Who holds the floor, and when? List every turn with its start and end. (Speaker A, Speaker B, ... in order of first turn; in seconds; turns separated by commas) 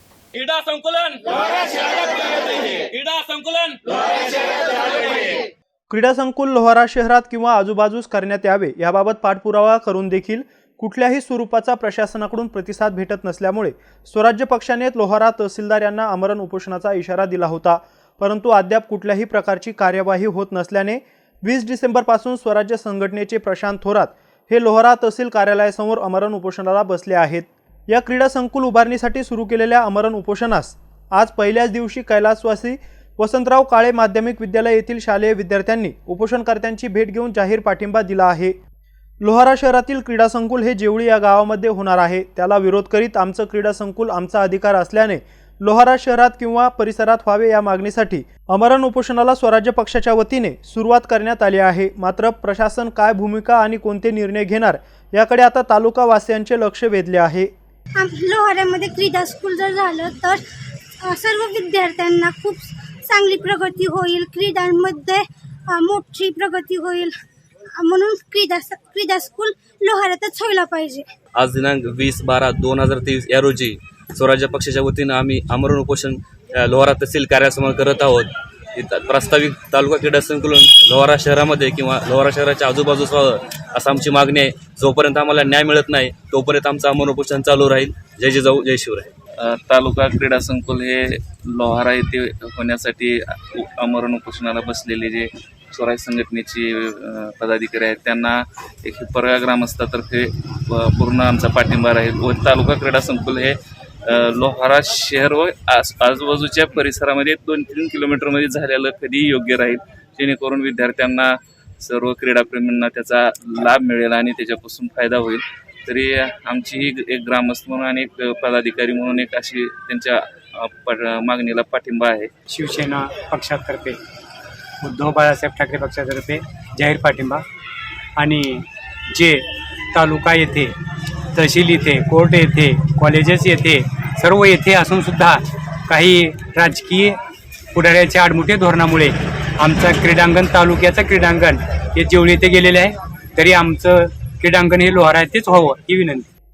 Speaker A: 0.3-5.4, Speaker B: 5.9-38.5, Speaker B: 39.2-57.5, Speaker C: 57.9-60.4, Speaker C: 61.0-67.1, Speaker C: 67.7-71.1, Speaker D: 71.3-89.1, Speaker E: 89.4-122.3, Speaker F: 122.5-124.0, Speaker F: 124.8-127.4, Speaker F: 128.2-130.7, Speaker F: 131.3-137.2, Speaker F: 137.7-146.3